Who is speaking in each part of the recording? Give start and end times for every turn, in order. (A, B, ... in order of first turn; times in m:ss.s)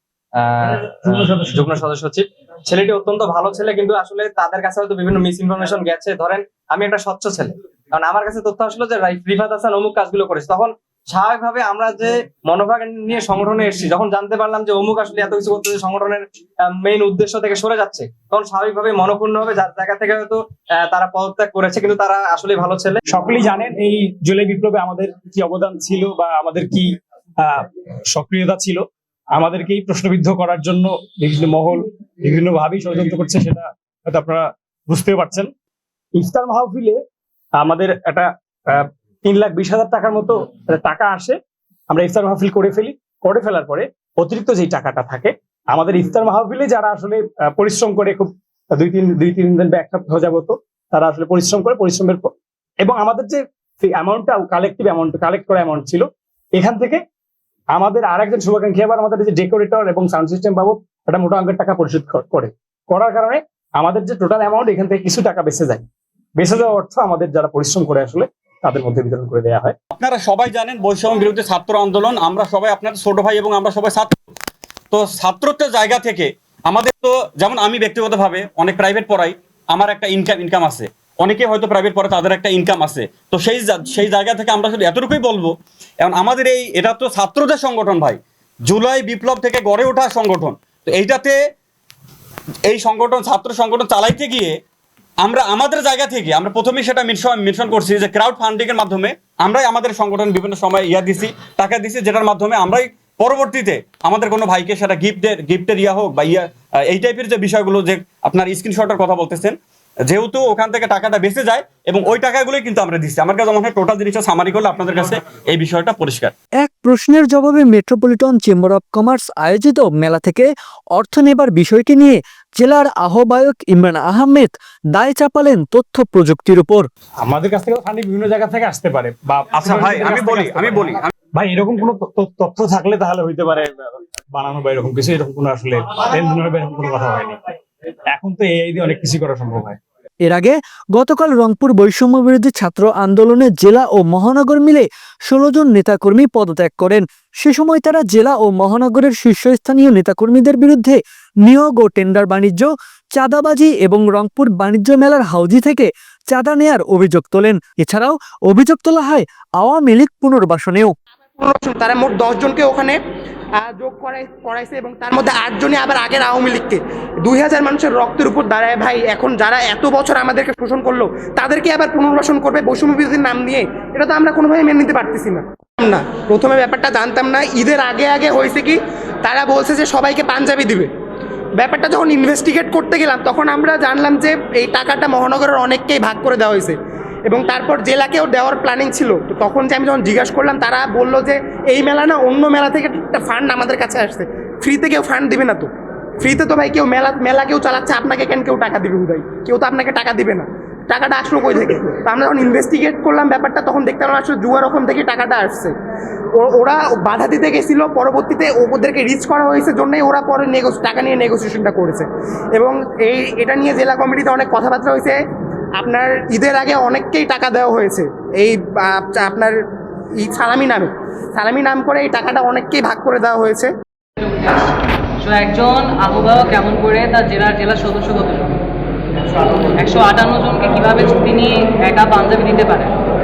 0:00.4-0:23.0 A
0:23.1-0:26.9 B
0:27.4-0:35.5 B
0:36.2-0:37.0 B
0:37.6-0:41.4 B
0:41.9-0:57.0 B
0:57.7-1:05.8 B
1:06.4-1:09.8 B
1:09.9-1:14.2 C
1:14.9-1:31.4 C
1:32.7-1:34.6 C
1:35.2-1:56.3 C
1:56.6-2:06.9 D
2:07.2-2:17.4 B
2:09.5-2:11.1 C
2:18.1-2:19.8 B
2:20.2-2:41.0 D
2:41.4-2:43.0 E
2:43.6-3:00.9 E
3:01.6-3:06.8 E
3:07.3-3:15.7 E
3:16.2-3:25.7 E
3:26.4-3:35.2 E
3:35.8-3:39.5 E
3:40.2-3:43.7 E
3:44.4-3:48.6 F
3:49.8-3:52.9 F